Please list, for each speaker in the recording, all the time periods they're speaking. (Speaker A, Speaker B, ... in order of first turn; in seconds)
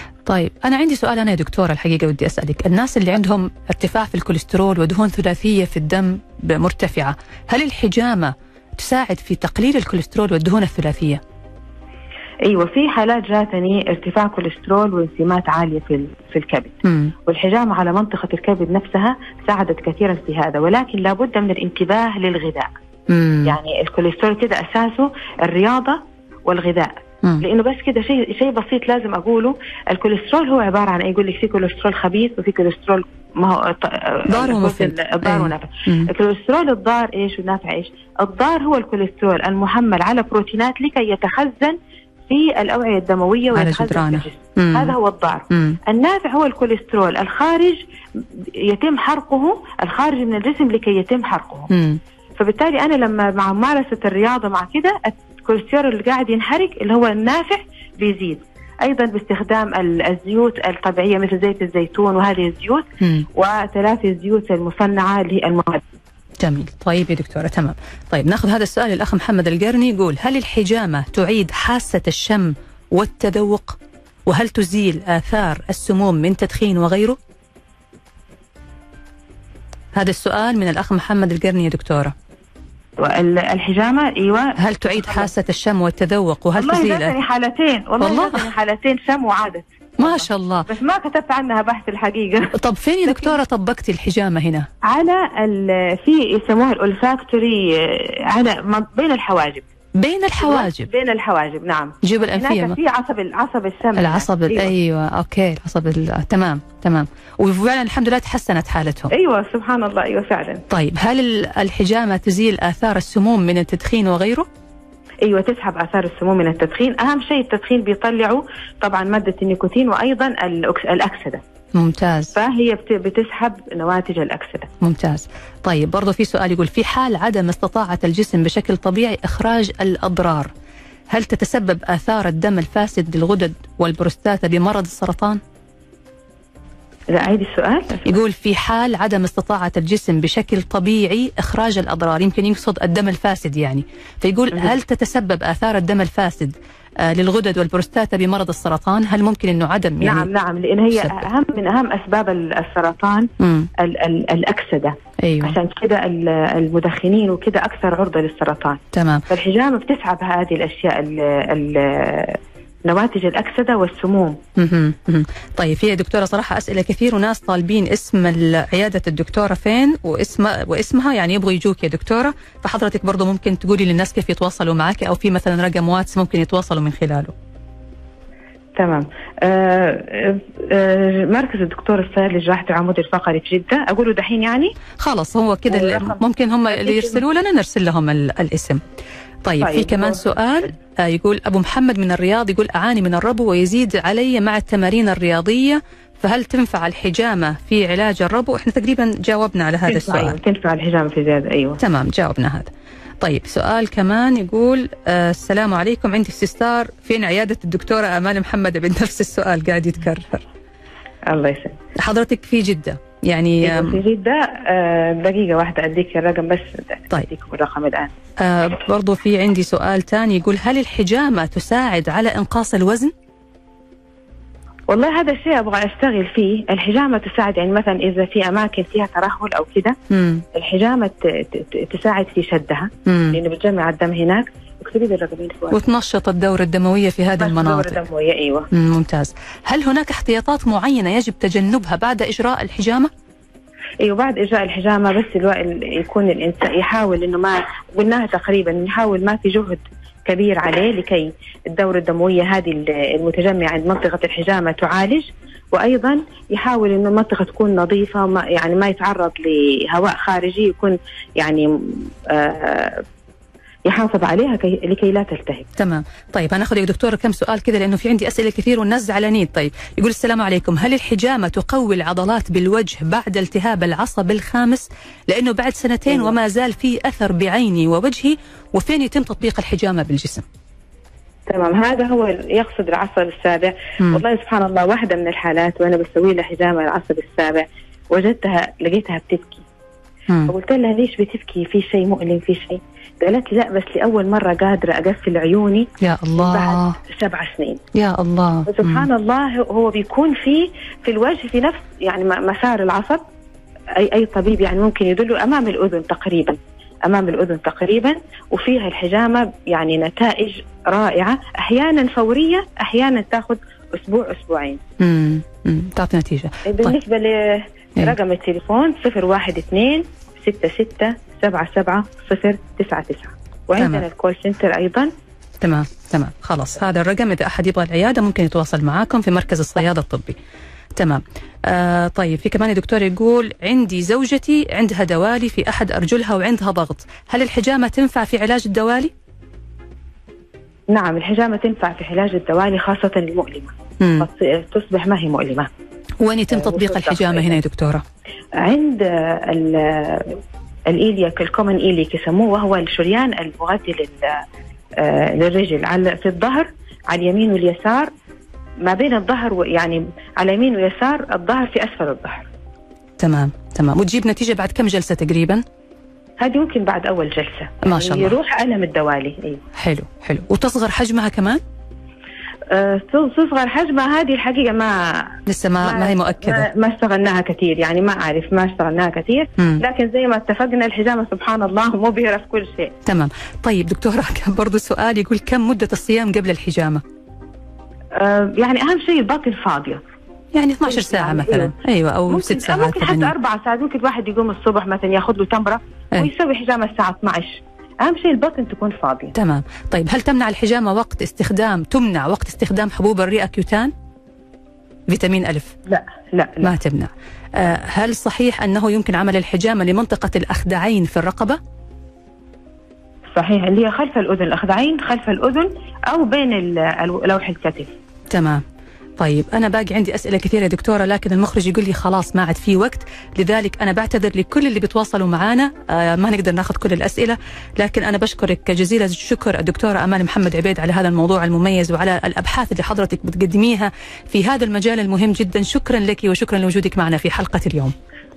Speaker A: 0.2-11.2, 16.8-17.1, 23.1-23.6, 34.3-36.1, 43.5-45.0, 45.5-45.8, 51.7-52.0, 63.0-63.3, 66.4-77.2, 79.9-82.1, 84.6-87.1, 88.0-88.5, 90.0-90.7, 92.5-94.7, 100.0-100.9, 102.0-102.8, 104.0-109.1, 110.7-114.5, 121.7-122.3, 124.8-130.5, 131.1-135.4, 138.0-150.3, 150.9-151.2, 153.4-153.7, 155.2-155.6, 158.9-159.2, 164.6-177.3, 185.0-188.8, 189.4-200.4, 201.8-202.7, 203.2-210.4, 212.0-214.0, 218.4-223.1, 230.1-230.4, 233.1-233.4, 235.7-238.0, 238.7-243.1, 265.8-280.4, 296.0-297.0, 297.9-299.1, 315.0-316.9, 323.8-324.0, 325.6-330.4, 330.9-339.1, 344.0-344.3, 346.2-348.0, 363.2-365.6, 367.8-368.4, 369.8-371.6, 375.5-376.7, 379.6-379.8, 383.0-387.0, 390.5-393.3, 399.3-403.9, 405.1-405.7, 406.6-411.6, 418.3-418.6, 419.2-437.9
Speaker B: 12.4-22.7, 23.4-41.8, 42.3-47.8, 48.7-51.7, 52.4-65.8, 83.0-85.3, 86.6-93.3, 94.8-99.6, 100.4-104.7, 109.1-110.6, 115.2-121.4, 122.3-124.7, 137.1-138.0, 150.0-164.4, 178.8-184.8, 185.7-186.2, 186.7-187.2, 189.6-190.3, 199.9-201.8, 211.3-211.8, 213.6-218.1, 224.9-230.0, 230.5-235.8, 237.4-238.7, 244.0-263.0, 263.9-265.7, 276.1-276.3, 281.5-289.6, 290.5-297.8, 298.7-303.2, 303.9-314.8, 316.6-325.1, 340.9-345.7, 346.5-347.6, 348.6-354.4, 355.0-358.1, 358.8-362.5, 366.4-369.6, 372.7-382.9, 388.1-390.0, 390.8-391.7, 392.3-399.3, 405.9-406.7, 413.3-417.9